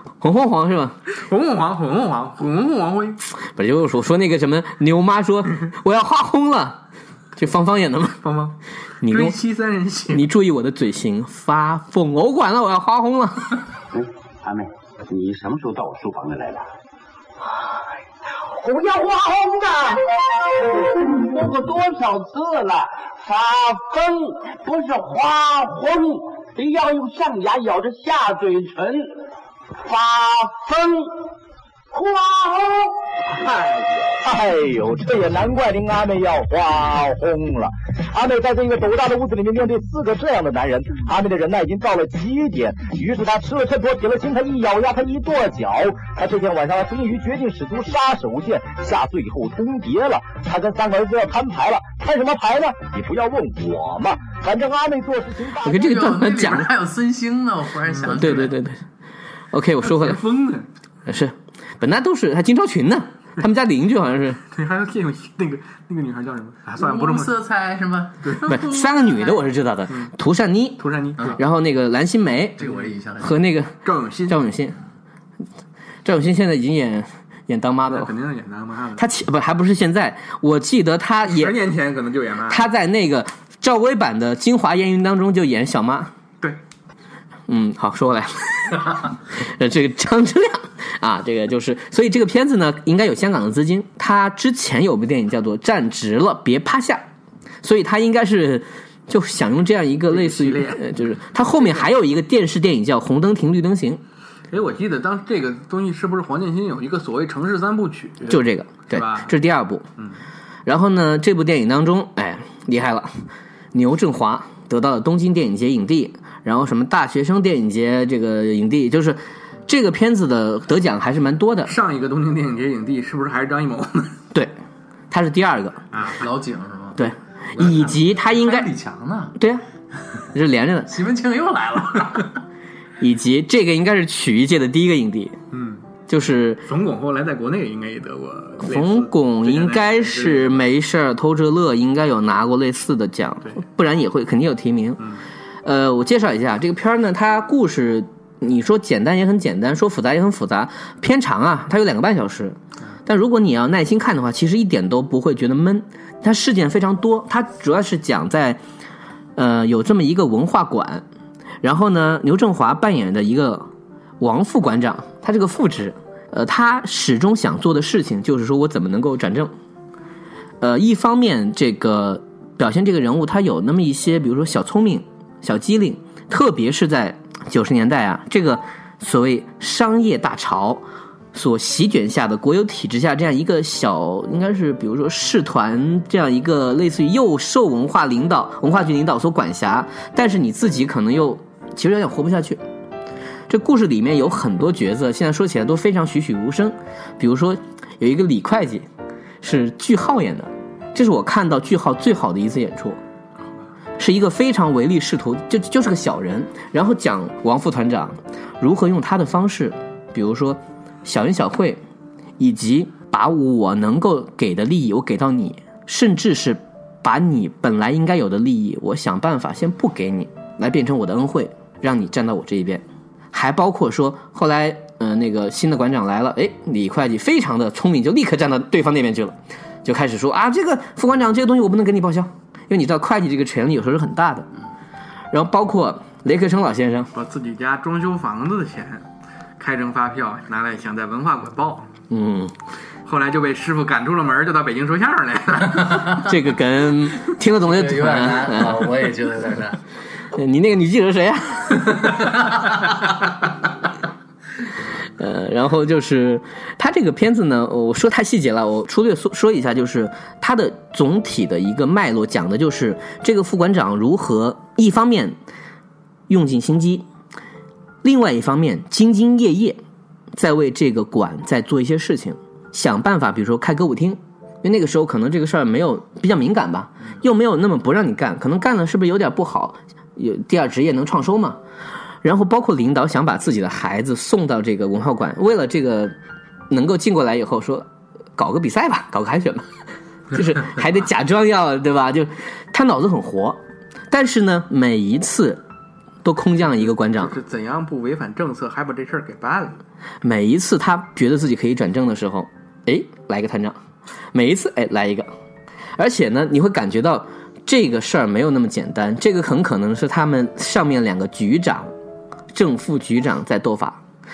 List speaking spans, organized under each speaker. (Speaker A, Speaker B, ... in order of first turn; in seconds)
Speaker A: 0.2-0.9, 3.4-6.8, 7.3-8.2, 9.0-9.3, 10.1-13.6, 55.6-56.7, 58.1-58.8, 59.5-60.2, 61.1-64.4, 68.4-72.7, 73.2-73.8, 74.3-74.8, 76.0-78.1, 79.0-81.5, 82.5-86.1, 87.5-97.0, 97.6-104.0, 108.2-109.8, 110.7-113.1, 113.7-121.7, 125.1-125.8, 127.0-128.7, 129.4-129.6, 130.3-130.9, 133.0-135.4, 136.1-136.6, 138.6-145.0, 145.6-158.6, 159.3-161.0, 161.6-163.7, 164.2-169.5, 170.6-192.6, 193.5-198.9, 199.4-203.0, 204.0-211.8, 212.4-234.5, 235.3-237.1, 242.1-242.5, 246.1-248.9, 250.3-252.3, 255.2-265.4, 266.3-267.0, 268.0-269.8, 270.3-281.6, 282.2-286.1, 286.7-287.9, 288.4-289.7, 290.3-295.6, 296.2-297.4, 300.2-303.8, 304.3-305.3, 306.0-311.9, 312.5-314.0
Speaker B: 1.1-3.2, 8.2-10.2, 59.8-60.7, 64.5-67.3, 68.2-68.6, 70.8-71.4, 73.8-74.4, 77.9-79.1, 81.2-82.7, 100.1-101.9, 104.5-109.3, 121.7-124.2, 125.9-126.2, 135.5-135.8, 136.6-140.7, 237.1-239.0, 239.6-241.9, 243.0-246.2, 296.8-299.8
Speaker C: 13.9-16.7
Speaker D: 18.4-29.2, 29.8-31.2, 31.9-55.7
Speaker E: 55.6-58.5, 66.7-69.4, 72.6-73.4, 126.2-129.3, 130.9-132.4, 247.6-249.8, 251.9-252.8